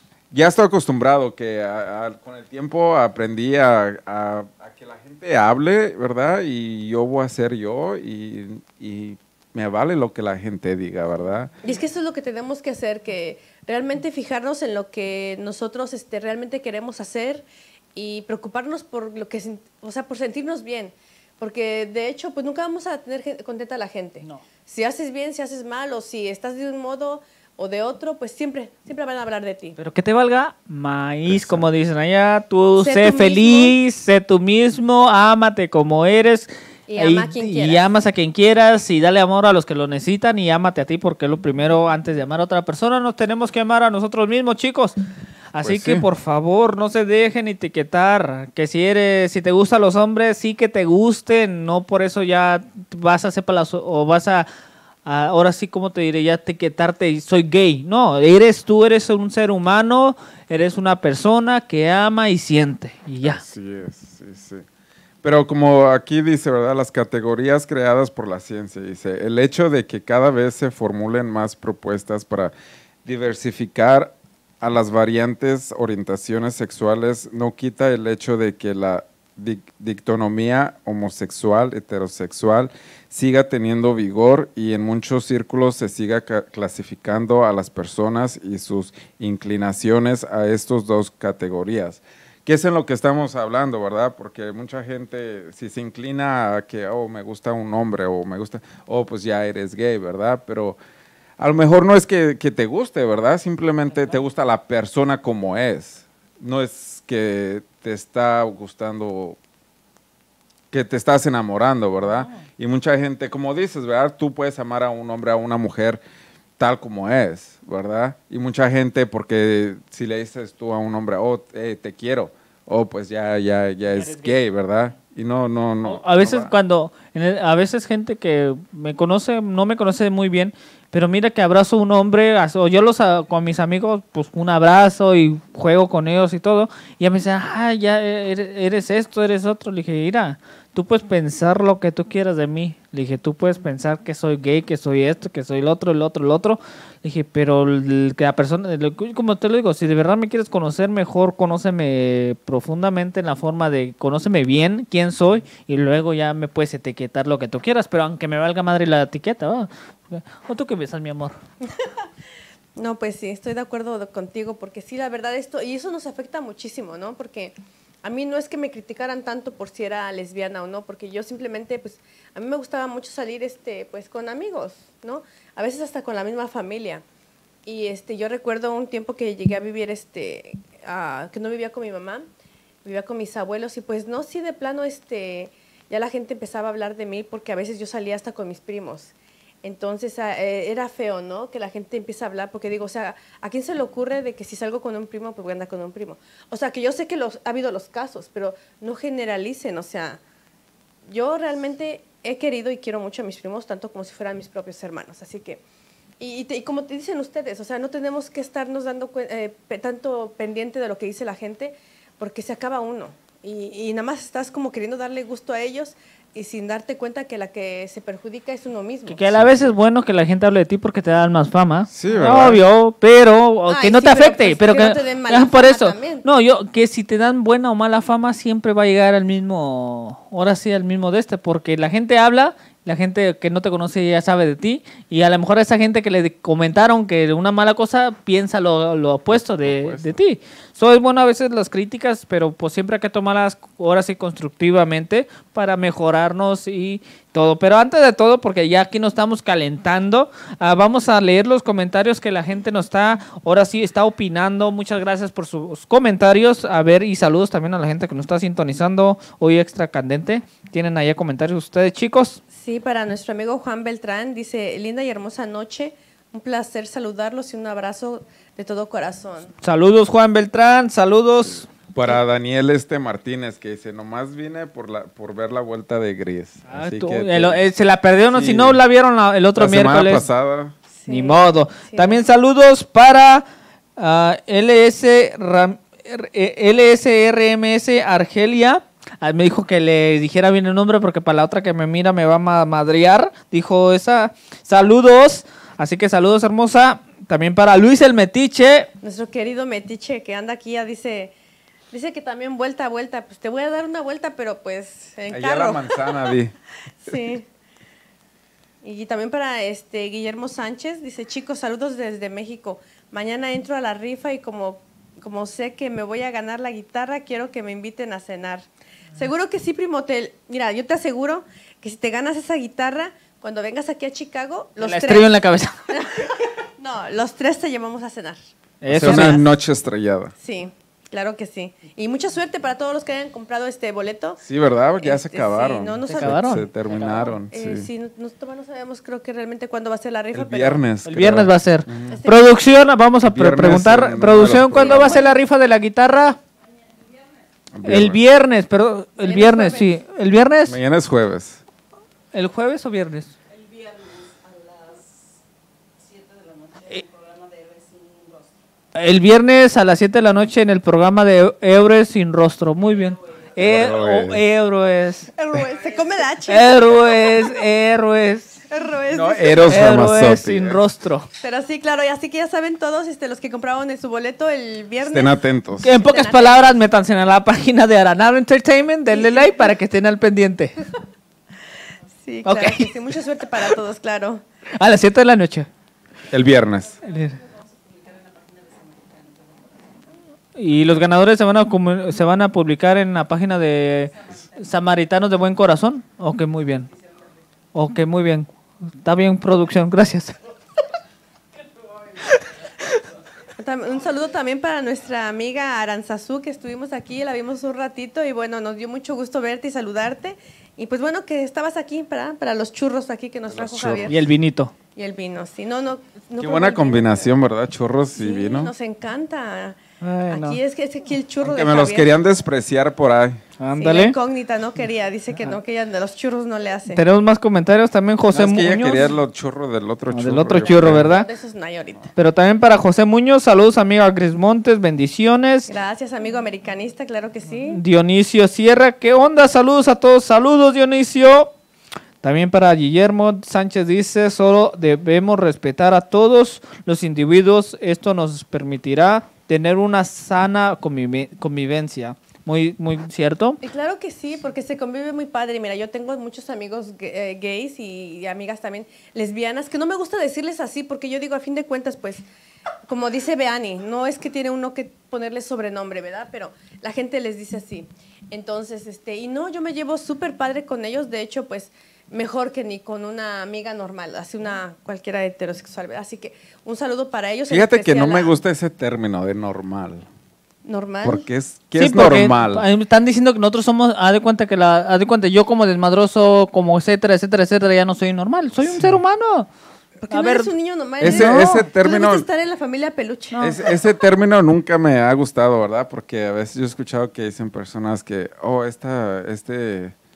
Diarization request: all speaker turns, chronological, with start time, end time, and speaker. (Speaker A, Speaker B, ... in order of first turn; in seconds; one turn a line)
Speaker A: 0.3-11.6
Speaker B: 11.6-29.8
Speaker C: 29.8-45.0
Speaker A: 31.3-31.7
Speaker B: 32.8-33.8
Speaker B: 36.9-37.9
Speaker C: 45.5-54.5
Speaker A: 45.6-46.0
Speaker C: 55.0-63.4
Speaker A: 63.2-64.7
Speaker A: 65.2-72.5
Speaker A: 73.0-100.8
Speaker A: 101.4-109.4
Speaker A: 110.7-116.0
Speaker C: 112.2-112.5
Speaker A: 116.6-126.5
Speaker C: 123.9-124.4
Speaker C: 125.8-161.4
Speaker B: 162.8-177.0
Speaker B: 177.7-182.3
Speaker B: 182.8-200.2
Speaker B: 201.1-205.6
Speaker B: 206.2-219.2
Speaker C: 219.1-262.4
Speaker A: 219.3-219.7
Speaker A: 221.9-222.6
Speaker B: 223.7-226.2
Speaker A: 239.3-240.2
Speaker B: 262.5-269.5
Speaker C: 269.6-271.7
Speaker A: 271.9-277.6
Speaker C: 276.7-280.3
Speaker A: 278.3-278.8
Speaker A: 279.6-280.8
Speaker B: 280.9-282.2
Speaker C: 281.1-283.4
Speaker C: 284.0-298.9
Speaker B: 299.0-301.3
Speaker B: 301.9-306.3
Speaker A: 305.3-306.5
Speaker B: 307.0-307.5
Speaker B: 308.8-325.3
Speaker C: 324.8-325.9
Speaker B: 325.9-328.4
Speaker C: 328.8-329.4
Speaker A: 328.9-330.3
Speaker B: 328.9-329.4
Speaker B: 330.4-334.4
Speaker A: 334.4-337.9
Speaker B: 335.0-336.4
Speaker C: 336.1-337.1
Speaker B: 337.1-340.8
Speaker A: 340.3-342.2
Speaker C: 341.1-346.4
Speaker B: 342.1-342.6
Speaker A: 343.2-345.2
Speaker B: 344.7-345.3
Speaker A: 347.7-348.2
Speaker C: 347.9-350.8
Speaker B: 349.2-350.0
Speaker A: 350.7-351.6
Speaker C: 352.3-353.4
Speaker C: 358.9-365.3
Speaker A: 363.6-364.4
Speaker B: 365.4-367.6
Speaker C: 366.5-368.6
Speaker B: 368.7-369.7
Speaker A: 369.1-370.8
Speaker C: 369.7-371.3
Speaker B: 371.4-376.8
Speaker A: 375.0-375.9
Speaker C: 375.8-380.8
Speaker B: 379.1-379.7
Speaker B: 382.2-384.4
Speaker C: 382.4-382.9
Speaker C: 384.8-385.7
Speaker A: 386.3-387.0
Speaker C: 387.0-387.4
Speaker C: 390.6-396.9
Speaker C: 397.7-398.5
Speaker C: 399.0-400.4
Speaker C: 402.2-403.0
Speaker B: 403.6-414.2
Speaker A: 413.5-414.1
Speaker C: 414.1-414.7
Speaker B: 414.9-417.3
Speaker A: 416.4-418.7
Speaker B: 418.2-419.8
Speaker C: 420.0-420.6
Speaker B: 420.3-422.1
Speaker A: 421.4-423.4
Speaker C: 423.6-424.1
Speaker B: 423.8-427.0
Speaker C: 426.9-429.1
Speaker A: 428.3-431.1
Speaker C: 430.1-431.3
Speaker B: 430.6-432.1
Speaker C: 432.2-435.7
Speaker B: 435.7-437.8
Speaker C: 437.7-441.5
Speaker C: 442.2-453.6
Speaker B: 453.6-462.2
Speaker B: 462.9-478.4
Speaker A: 477.5-480.1
Speaker B: 480.6-481.3
Speaker A: 481.0-482.7
Speaker C: 481.8-489.5
Speaker A: 488.6-489.0
Speaker B: 490.0-493.8
Speaker C: 490.1-491.6
Speaker A: 491.0-492.3
Speaker A: 493.4-499.9